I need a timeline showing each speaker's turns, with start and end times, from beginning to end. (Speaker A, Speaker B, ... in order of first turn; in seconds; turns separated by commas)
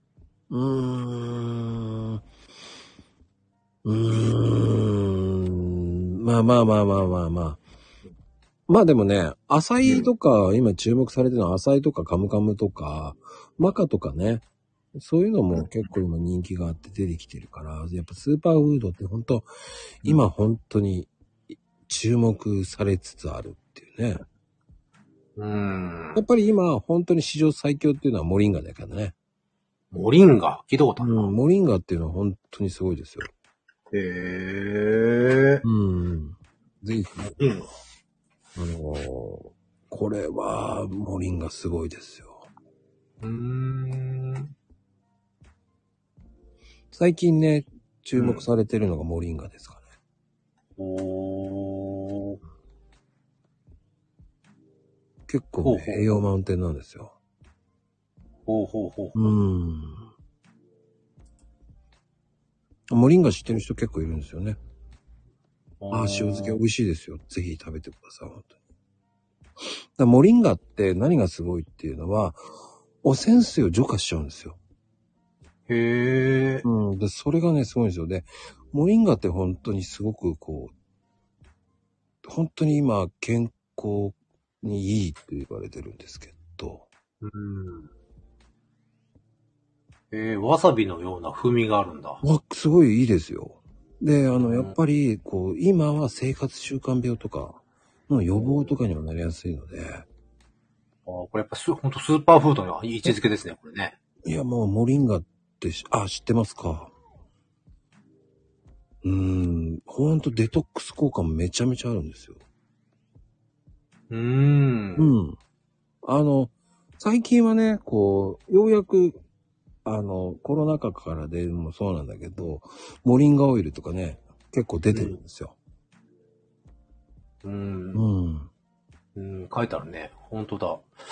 Speaker A: 0.5-2.2, Speaker A: 3.8-7.6, Speaker A: 8.7-14.4, Speaker B: 9.8-10.1, Speaker A: 14.9-19.5, Speaker A: 20.0-21.1, Speaker A: 21.9-24.2, Speaker B: 25.4-26.2, Speaker A: 26.1-29.1, Speaker B: 29.9-31.3, Speaker A: 31.0-33.3, Speaker B: 33.9-35.6, Speaker A: 35.6-37.4, Speaker B: 37.2-37.7, Speaker A: 38.5-42.5, Speaker B: 43.2-44.5, Speaker A: 46.9-49.8, Speaker B: 48.1-48.4, Speaker B: 50.8-52.4, Speaker A: 55.3-57.1, Speaker B: 55.6-56.2, Speaker B: 58.5-59.3, Speaker A: 59.1-60.1, Speaker A: 62.9-64.6, Speaker B: 65.8-66.6, Speaker A: 65.9-68.5, Speaker A: 70.0-72.4, Speaker A: 73.0-74.6, Speaker B: 75.7-76.7, Speaker A: 76.6-80.7, Speaker A: 82.2-86.8, Speaker B: 87.2-87.9, Speaker B: 90.1-92.2, Speaker A: 92.2-100.0, Speaker B: 94.3-94.8, Speaker B: 98.3-98.6, Speaker B: 101.0-104.0, Speaker A: 104.2-106.9, Speaker A: 109.0-112.4, Speaker B: 114.1-115.1, Speaker A: 115.0-115.4, Speaker A: 116.0-119.2, Speaker A: 119.8-125.5, Speaker B: 127.4-128.0, Speaker A: 127.9-128.5, Speaker B: 129.2-130.9